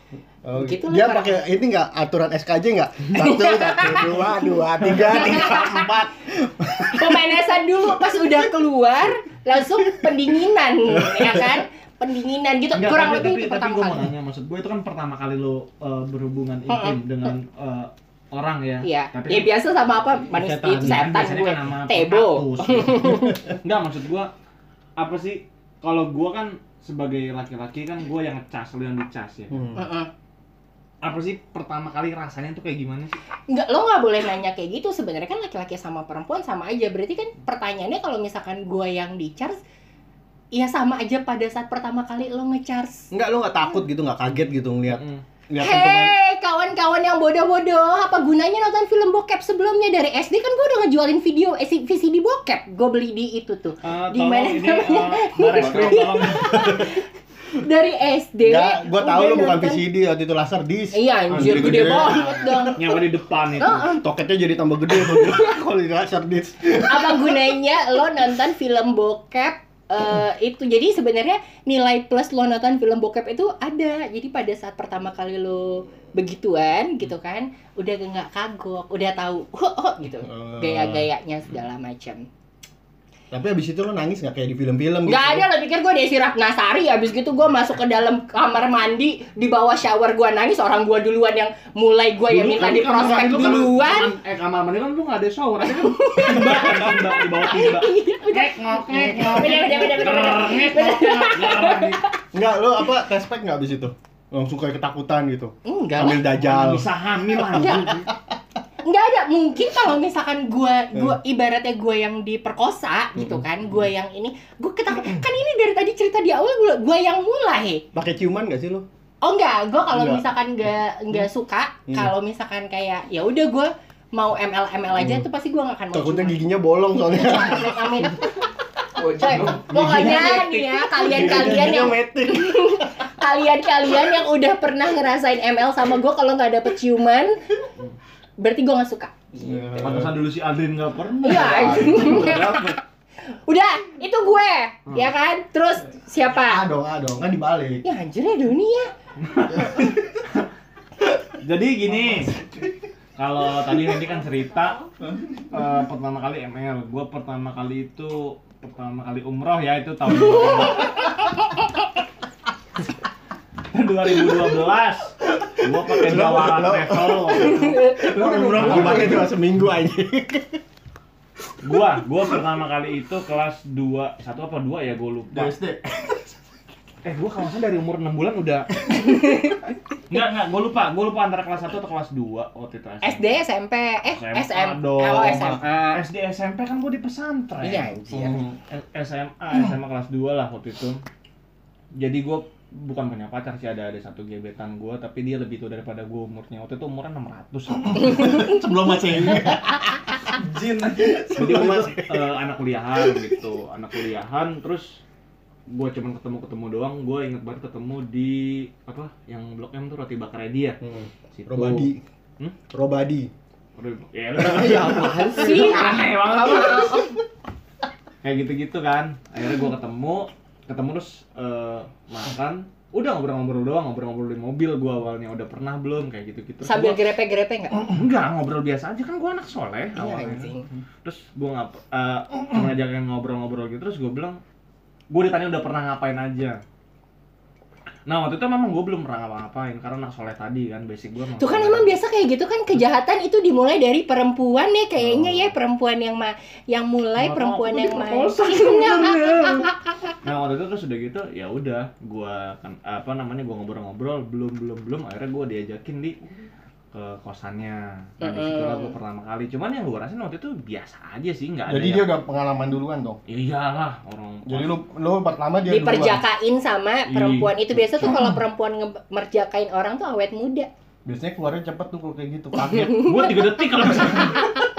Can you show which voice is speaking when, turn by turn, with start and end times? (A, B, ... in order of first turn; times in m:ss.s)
0:00.4-0:08.4 A
0:00.5-0:01.4 B
0:03.1-0:04.1 B
0:05.0-0:05.9 B
0:06.9-0:14.1 B
0:09.9-0:10.2 A
0:11.0-0:11.6 A
0:12.7-0:19.5 C
0:16.7-0:17.0 B
0:18.8-0:23.4 B
0:20.3-0:24.3 C
0:20.6-0:21.0 A
0:22.4-0:23.5 A
0:25.0-0:29.6 C
0:29.5-0:29.9 A
0:29.7-0:30.1 B
0:31.0-0:33.2 C
0:33.5-0:39.6 B
0:40.5-0:43.1 B
0:43.1-0:46.1 A
0:44.9-0:45.2 C
0:45.6-0:59.8 B
0:53.8-0:56.9 C
0:56.5-0:56.9 A
0:58.4-1:02.7 A
1:00.9-1:02.9 B
1:02.7-1:03.9 C
1:03.6-1:04.0 B
1:03.8-1:07.4 A
1:04.9-1:05.5 B
1:06.8-1:22.2 B
1:20.2-1:21.1 A
1:23.3-1:25.5 A
1:25.0-1:34.1 B
1:32.3-1:42.0 C
1:35.6-1:42.2 B
1:36.4-1:36.9 A
1:38.9-1:39.5 A
1:42.3-1:48.3 A
1:45.6-1:46.2 B
1:46.3-1:48.1 C
1:47.6-1:48.0 B
1:48.8-1:57.8 B
1:53.2-1:53.4 A
1:57.9-1:58.8 A
1:59.2-2:06.4 B
1:59.9-2:00.2 A
2:01.9-2:02.1 A
2:04.9-2:05.2 A
2:05.9-2:08.1 A
2:07.0-2:17.4 B
2:09.3-2:11.8 C
2:09.4-2:12.9 A
2:18.4-2:19.8 B
2:19.4-2:20.2 A
2:19.8-2:22.8 C
2:21.2-2:22.8 B
2:21.5-2:22.3 A
2:23.4-2:26.6 B
2:26.4-2:27.8 A
2:27.8-2:28.9 B
2:29.2-2:30.5 C
2:31.4-2:32.3 C
2:33.2-2:34.9 C
2:35.5-2:41.0 C
2:43.7-2:49.3 C
2:45.3-2:50.6 A
2:47.4-2:48.1 B
2:51.6-2:55.5 C
2:55.3-2:56.3 A
2:57.0-2:58.7 C
2:59.0-2:59.6 B
3:00.1-3:03.4 C
3:03.0-3:06.0 B
3:04.1-3:07.9 C
3:07.6-3:08.4 B
3:08.1-3:08.6 A
3:08.7-3:11.0 C
3:12.0-3:18.4 C
3:17.8-3:22.3 A
3:21.3-3:25.0 C
3:23.0-3:23.3 A
3:25.7-3:30.8 C
3:30.8-3:32.0 A
3:31.3-3:32.6 C
3:32.7-3:33.3 A
3:33.8-3:37.1 C
3:34.4-3:36.1 A
3:35.3-3:37.1 B
3:38.2-3:47.0 C
3:46.6-3:47.8 B
3:47.8-3:54.4 C
3:50.0-3:50.6 B
3:55.1-3:56.6 C
3:58.0-4:01.9 C
4:01.4-4:10.1 B
4:07.2-4:16.2 C
4:16.9-4:22.1 C
4:18.2-4:18.9 B
4:21.7-4:23.2 A
4:23.3-4:24.8 C
4:24.4-4:26.2 A
4:25.7-4:30.7 B
4:27.1-4:27.6 C
4:31.0-4:33.1 A
4:32.7-4:33.2 B
4:32.8-4:34.4 C